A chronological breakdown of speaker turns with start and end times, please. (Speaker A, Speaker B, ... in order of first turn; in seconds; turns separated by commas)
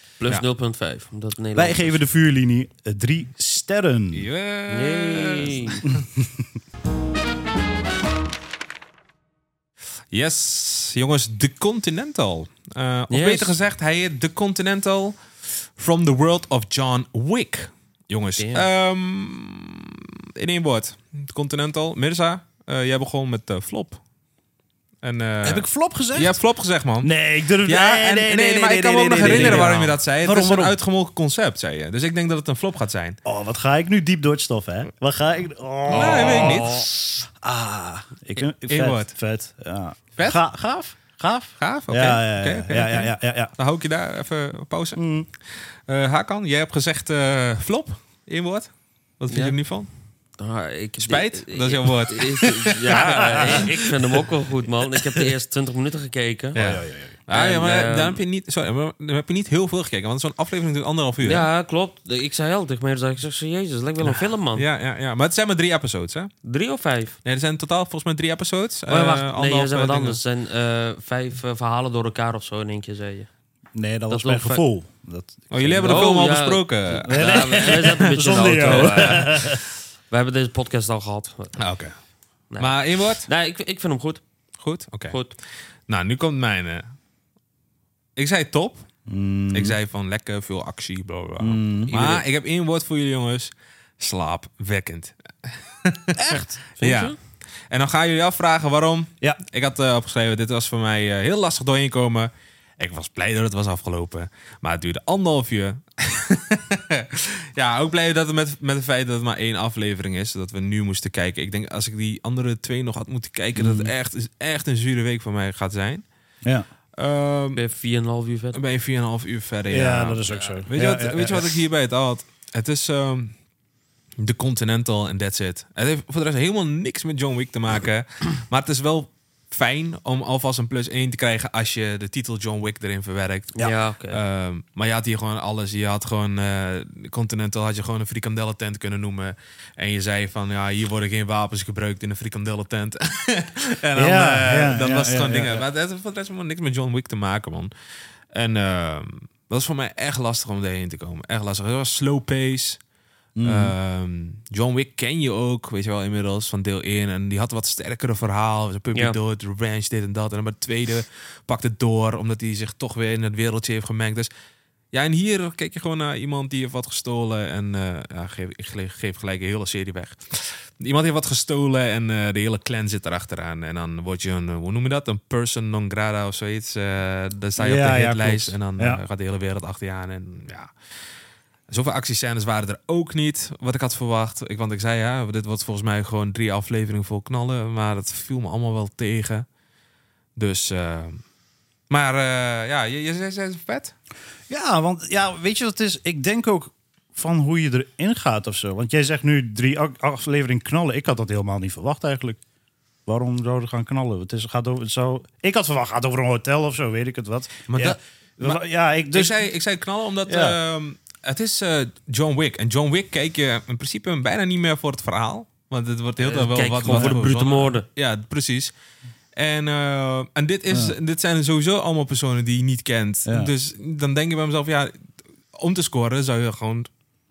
Speaker A: 0.2-2.0, Speaker B: 1.6-4.3, Speaker C: 4.1-6.0, Speaker A: 4.7-5.8, Speaker B: 5.9-6.4, Speaker C: 10.1-15.2, Speaker A: 13.1-13.5, Speaker C: 15.8-24.0, Speaker A: 18.4-18.6, Speaker C: 25.0-33.2, Speaker B: 25.4-26.4, Speaker B: 27.0-30.8, Speaker A: 29.2-29.9, Speaker B: 33.2-43.5, Speaker C: 35.9-36.8, Speaker A: 35.9-36.9, Speaker C: 38.4-39.1, Speaker C: 41.6-45.0, Speaker B: 44.9-45.3, Speaker C: 45.5-49.9, Speaker A: 49.3-49.6, Speaker A: 50.4-56.6, Speaker C: 51.0-53.8, Speaker C: 56.5-61.5, Speaker B: 56.6-57.1, Speaker A: 57.3-58.2, Speaker A: 61.2-64.7, Speaker C: 64.5-66.3, Speaker A: 66.4-67.2, Speaker C: 67.2-70.2, Speaker A: 68.9-73.3, Speaker B: 73.8-76.1, Speaker A: 74.1-74.6, Speaker C: 75.5-79.2, Speaker A: 75.8-81.5, Speaker B: 77.1-79.6, Speaker C: 81.6-81.9, Speaker A: 82.5-84.2, Speaker C: 82.6-83.3, Speaker C: 84.6-85.2, Speaker C: 85.9-86.9, Speaker C: 88.2-88.9, Speaker B: 89.1-89.8, Speaker C: 89.5-97.1, Speaker B: 91.4-92.0, Speaker A: 91.9-92.2, Speaker B: 96.2-96.6, Speaker A: 96.8-97.2, Speaker C: 97.7-116.0, Speaker B: 113.6-113.9, Speaker C: 117.0-117.6, Speaker A: 117.5-118.6, Speaker C: 118.5-123.3, Speaker B: 119.7-121.6, Speaker A: 120.3-120.6, Speaker C: 124.2-147.7, Speaker A: 133.6-134.2, Speaker B: 143.9-145.6, Speaker C: 148.3-152.8, Speaker B: 153.4-153.7, Speaker C: 153.4-164.3, Speaker C: 164.9-180.7, Speaker B: 177.6-179.0, Speaker C: 181.7-189.4, Speaker C: 190.4-191.2, Speaker C: 191.9-193.9, Speaker B: 194.5-202.4, Speaker B: 203.1-209.4, Speaker C: 207.7-208.6, Speaker C: 209.1-218.7, Speaker B: 210.3-210.6, Speaker A: 216.2-217.9, Speaker B: 216.9-217.2, Speaker C: 219.3-226.9, Speaker B: 220.7-220.9, Speaker B: 223.3-223.5